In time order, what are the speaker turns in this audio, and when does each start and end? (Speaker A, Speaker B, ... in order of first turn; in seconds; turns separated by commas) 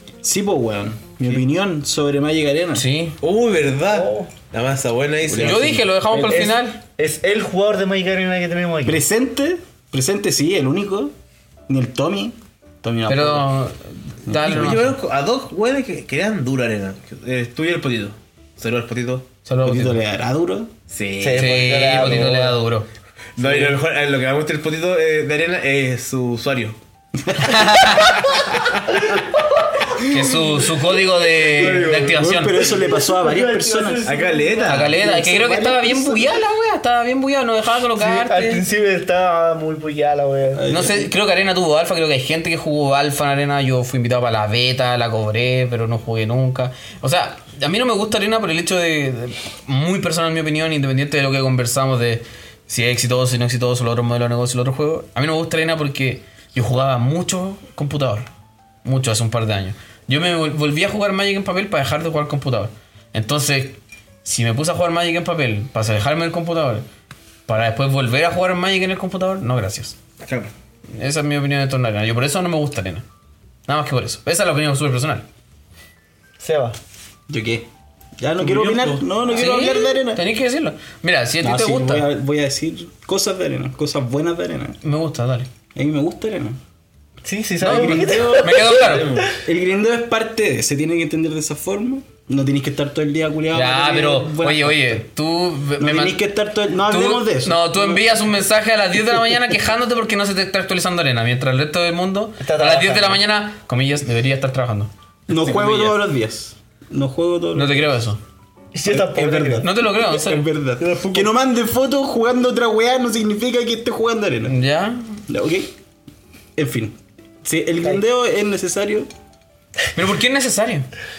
Speaker A: 0.2-2.8, Speaker B: 2.7-3.2, Speaker C: 3.2-5.8, Speaker D: 3.9-4.3, Speaker A: 5.3-5.8, Speaker B: 5.4-6.8, Speaker D: 6.1-9.0, Speaker A: 8.8-11.1, Speaker A: 11.7-13.5, Speaker B: 13.1-14.9, Speaker A: 14.3-14.8, Speaker C: 14.4-19.3, Speaker B: 19.4-20.0, Speaker A: 19.6-20.7, Speaker C: 20.9-22.1, Speaker D: 21.2-22.6, Speaker B: 21.4-22.9, Speaker C: 23.4-26.8, Speaker A: 27.2-28.2, Speaker B: 27.4-28.4, Speaker C: 28.3-29.4, Speaker B: 30.0-32.7, Speaker C: 31.5-32.3, Speaker A: 31.6-36.4, Speaker D: 32.7-35.0, Speaker C: 34.0-35.0, Speaker B: 34.6-38.6, Speaker D: 38.0-40.7, Speaker A: 40.5-41.1, Speaker B: 40.7-58.3, Speaker B: 58.8-66.8, Speaker B: 67.5-69.9, Speaker C: 70.2-70.5, Speaker B: 71.0-73.0, Speaker B: 73.7-75.2, Speaker D: 76.4-76.8, Speaker A: 77.3-77.7, Speaker A: 78.2-80.2, Speaker C: 78.4-79.1, Speaker B: 79.3-82.1, Speaker A: 81.4-84.8, Speaker B: 84.8-85.5, Speaker A: 85.7-86.6, Speaker D: 87.2-89.3, Speaker A: 87.6-88.7, Speaker B: 87.6-89.2, Speaker C: 88.7-89.3, Speaker A: 89.4-95.0, Speaker B: 93.5-96.2, Speaker A: 95.8-98.0, Speaker B: 96.9-104.9, Speaker A: 99.1-99.3, Speaker D: 102.4-103.2, Speaker A: 105.3-107.9, Speaker C: 105.3-106.0, Speaker B: 107.5-108.2, Speaker D: 108.7-109.7, Speaker A: 108.9-114.5, Speaker B: 109.6-110.5, Speaker C: 110.8-111.2, Speaker B: 114.5-115.2, Speaker A: 115.3-115.7, Speaker A: 116.5-119.1, Speaker B: 119.9-120.9